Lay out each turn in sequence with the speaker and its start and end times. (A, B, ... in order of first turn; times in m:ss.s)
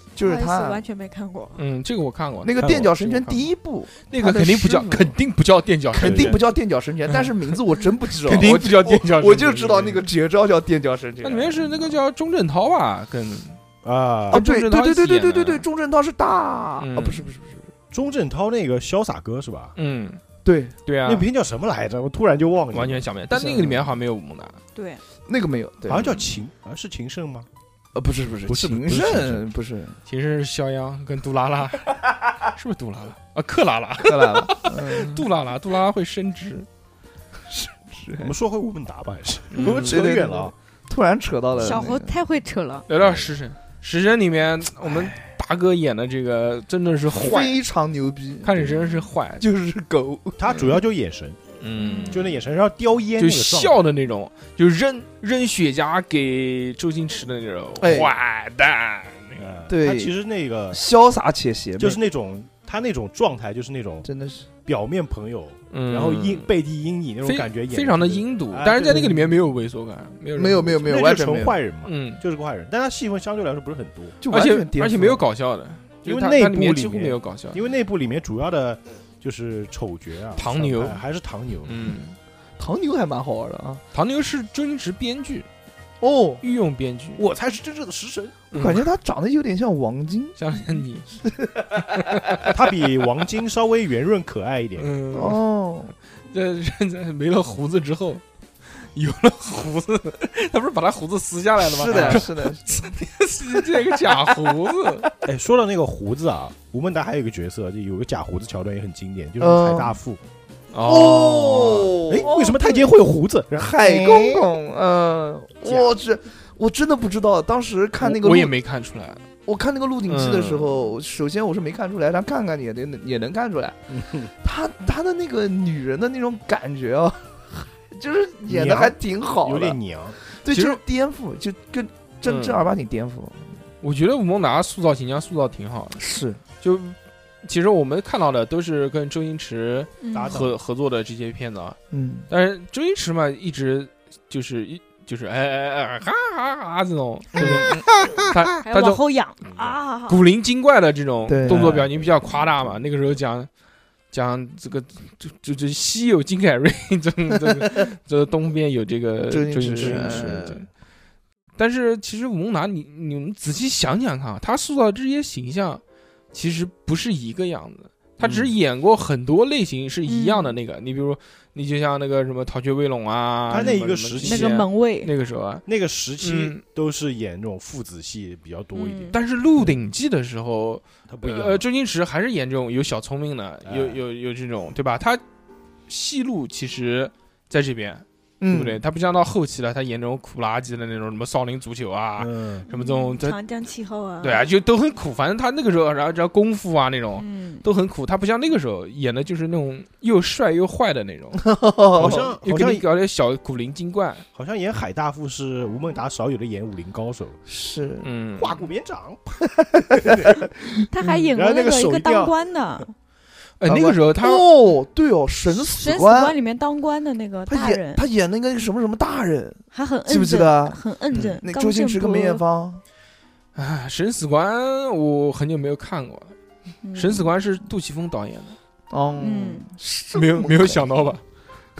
0:00.2-0:00.8 A
0:00.2-0:01.6 B
0:01.6-0:03.5 C
0:02.4-0:05.2 A
0:02.6-0:02.9 D
0:04.0-0:06.4 C
0:05.9-0:12.0 A
0:06.0-0:06.4 D
0:08.3-0:10.0 C
0:11.2-0:13.6 C
0:13.8-0:14.4 D
0:14.3-0:15.6 C
0:14.3-0:17.7 A
0:16.8-0:17.3 C
0:17.9-0:19.7 D
0:19.8-0:20.2 C
0:20.4-0:20.7 A
0:20.9-0:21.2 C
0:21.0-0:23.1 D
0:22.7-0:24.6 C
0:23.3-0:23.8 A
0:24.8-0:25.0 B
0:25.3-0:26.1 A
0:25.9-0:27.5 D
0:28.0-0:30.0 A
0:28.5-0:29.4 D
0:30.1-0:36.7 C
0:34.0-0:35.2 A
0:37.5-0:38.3 A
0:38.2-0:40.5 D
0:39.5-0:40.3 C
0:39.8-0:42.1 A
0:41.6-0:42.8 B
0:42.9-0:47.6 C
0:42.9-0:43.3 D
0:47.1-0:48.5 A
0:48.4-0:49.4 C
0:49.4-0:50.4 A
0:50.4-0:51.4 D
0:51.6-0:52.2 C
0:51.8-0:52.2 B
0:52.1-0:53.8 D
0:53.2-0:59.4 C
0:57.8-0:58.1 A
0:59.4-1:00.8 D
0:59.7-1:00.1 A
1:00.7-1:02.0 A
1:01.8-1:04.1 D
1:04.0-1:04.5 A
1:04.6-1:09.2 D
1:05.7-1:06.5 C
1:07.2-1:10.9 C
1:10.4-1:11.6 A
1:10.8-1:14.2 D
1:11.8-1:12.2 C
1:14.2-1:15.2 A
1:14.3-1:17.6 C
1:16.0-1:22.0 D
1:20.4-1:21.0 C
1:21.7-1:22.2 C
1:22.6-1:23.8 A
1:23.9-1:25.5 C
1:26.0-1:26.4 A
1:26.4-1:27.2 C
1:27.2-1:28.4 D
1:28.5-1:28.9 C
1:28.5-1:30.4 A
1:30.4-1:31.1 C
1:31.2-1:32.0 A
1:32.2-1:32.4 C
1:32.4-1:34.9 D
1:34.8-1:35.4 C
1:35.1-1:35.9 A
1:36.3-1:38.2 C
1:38.8-1:45.1 C
1:41.7-1:42.9 A
1:41.9-1:42.3 D
1:45.2-1:50.2 D
1:49.4-1:50.0 A
1:50.7-1:52.0 C
1:50.9-1:52.8 A
1:52.1-1:54.5 D
1:53.6-1:58.5 A
1:55.7-1:55.9 D
1:58.0-1:59.2 C
1:59.5-2:03.8 A
2:00.1-2:00.8 C
2:03.9-2:04.3 D
2:04.4-2:13.6 A
2:08.5-2:10.2 D
2:10.5-2:10.8 C
2:12.2-2:12.7 C
2:13.8-2:16.0 C
2:16.0-2:16.4 A
2:16.6-2:21.8 C
2:20.0-2:20.4 B
2:20.1-2:20.6 D
2:21.9-2:22.3 A
2:22.3-2:29.0 C
2:27.4-2:27.9 A
2:28.6-2:30.2 B
2:29.4-2:29.8 D
2:30.1-2:33.5 C
2:31.3-2:31.9 A
2:31.4-2:32.3 D
2:34.1-2:40.7 C
2:39.3-2:40.6 A
2:39.7-2:40.5 D
2:41.6-2:45.8 C
2:46.3-2:55.6 C
2:48.2-2:48.6 D
2:50.1-2:50.6 B
2:53.5-2:54.6 D
2:54.2-2:55.1 B
2:55.7-2:59.2 D
2:56.2-2:56.6 C
2:58.8-2:59.2 B
2:59.1-3:05.2 C
3:01.1-3:01.6 D
3:03.6-3:04.0 D
3:05.9-3:13.4 C
3:08.4-3:08.8 A
3:12.2-3:12.7 D
3:12.7-3:14.4 B
3:14.2-3:21.4 C
3:17.2-3:17.6 B
3:21.4-3:22.3 A
3:22.0-3:22.8 D
3:22.0-3:24.2 C
3:24.4-3:27.4 D
3:27.5-3:28.1 A
3:28.0-3:28.6 C
3:28.4-3:29.4 D
3:30.0-3:31.2 A
3:30.0-3:30.4 D
3:30.9-3:32.9 B
3:31.3-3:32.3 D
3:33.6-3:34.5 C
3:33.7-3:36.4 A
3:35.6-3:38.0 B
3:37.5-3:40.8 A
3:39.7-3:42.4 B
3:41.4-3:42.8 A
3:43.6-3:46.3 C
3:46.8-3:47.3 B
3:47.0-3:48.6 C
3:48.9-3:50.8 A
3:49.2-3:49.7 B
3:50.1-3:51.2 C